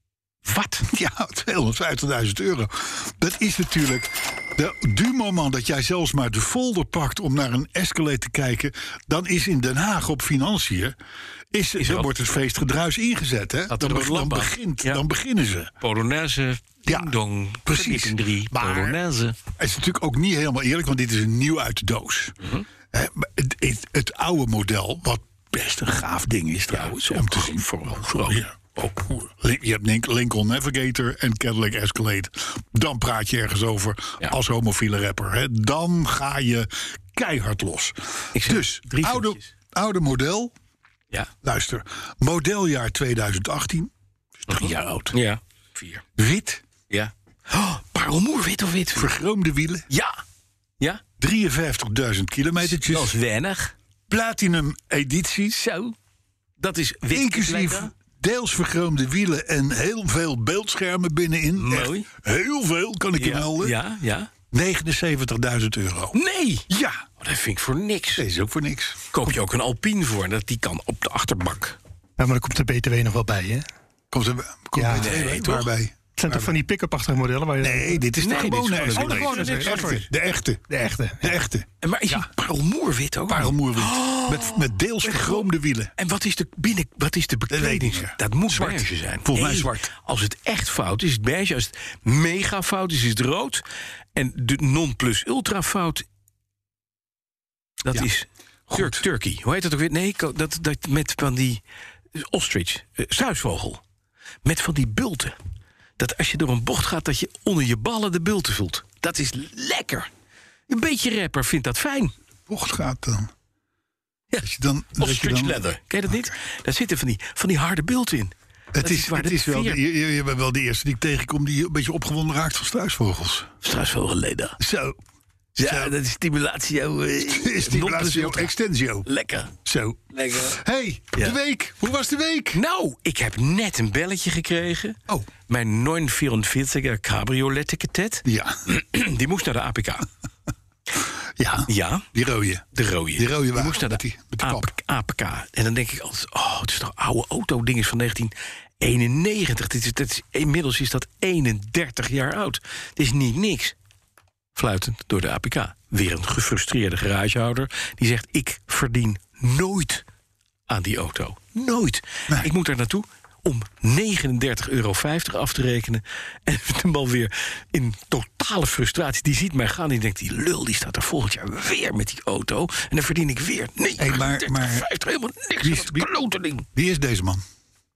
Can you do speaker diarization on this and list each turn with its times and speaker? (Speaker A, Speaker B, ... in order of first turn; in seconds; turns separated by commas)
Speaker A: 0.4-0.8, Speaker B: 0.8-10.9, Speaker B: 11.5-15.7, Speaker A: 11.8-12.1, Speaker A: 13.7-15.0, Speaker A: 15.8-19.4, Speaker B: 16.9-19.0, Speaker B: 19.6-22.4, Speaker B: 22.9-27.6, Speaker A: 26.7-28.9, Speaker B: 28.2-40.5, Speaker A: 38.3-39.5, Speaker B: 41.4-43.9, Speaker B: 44.5-44.9, Speaker A: 44.5-46.0, Speaker B: 46.2-46.6, Speaker A: 46.9-49.1, Speaker B: 48.9-49.9, Speaker A: 49.9-50.2, Speaker B: 51.2-53.1, Speaker A: 52.6-53.7, Speaker B: 54.1-55.6, Speaker A: 55.5-55.9, Speaker A: 56.6-57.9, Speaker B: 57.1-63.8, Speaker A: 61.6-62.1, Speaker A: 63.1-64.3, Speaker B: 64.5-66.2, Speaker A: 66.1-66.7, Speaker B: 66.7-67.0, Speaker A: 67.2-68.2, Speaker B: 68.2-69.0, Speaker A: 69.1-71.8, Speaker C: 72.2-73.7, Speaker B: 74.1-76.6, Speaker C: 74.8-75.1, Speaker A: 74.9-75.7, Speaker C: 76.2-78.1, Speaker B: 77.6-82.3, Speaker A: 78.2-80.0, Speaker C: 79.0-80.0, Speaker C: 80.7-81.3, Speaker A: 81.8-93.6, Speaker B: 83.3-85.9, Speaker B: 87.5-89.9, Speaker A: 94.1-96.0, Speaker A: 97.8-101.6, Speaker B: 98.7-99.0, Speaker A: 102.1-103.8, Speaker A: 104.4-105.4, Speaker A: 106.0-110.1, Speaker A: 110.7-112.1, Speaker B: 112.5-113.3, Speaker B: 114.4-116.3, Speaker A: 115.0-119.8, Speaker B: 118.7-123.5, Speaker A: 123.6-124.6, Speaker B: 124.6-125.0, Speaker A: 125.5-128.5, Speaker B: 125.6-125.9, Speaker B: 127.2-129.1, Speaker A: 129.0-129.5, Speaker B: 129.6-132.6, Speaker A: 130.1-130.5, Speaker A: 132.5-135.0, Speaker A: 135.5-140.1, Speaker B: 138.2-138.6, Speaker B: 141.4-142.6, Speaker A: 141.7-142.1, Speaker A: 142.7-153.7, Speaker B: 143.2-144.7, Speaker A: 154.6-160.0, Speaker A: 160.7-176.6, Speaker B: 174.0-174.8, Speaker B: 175.6-176.1, Speaker B: 176.7-177.4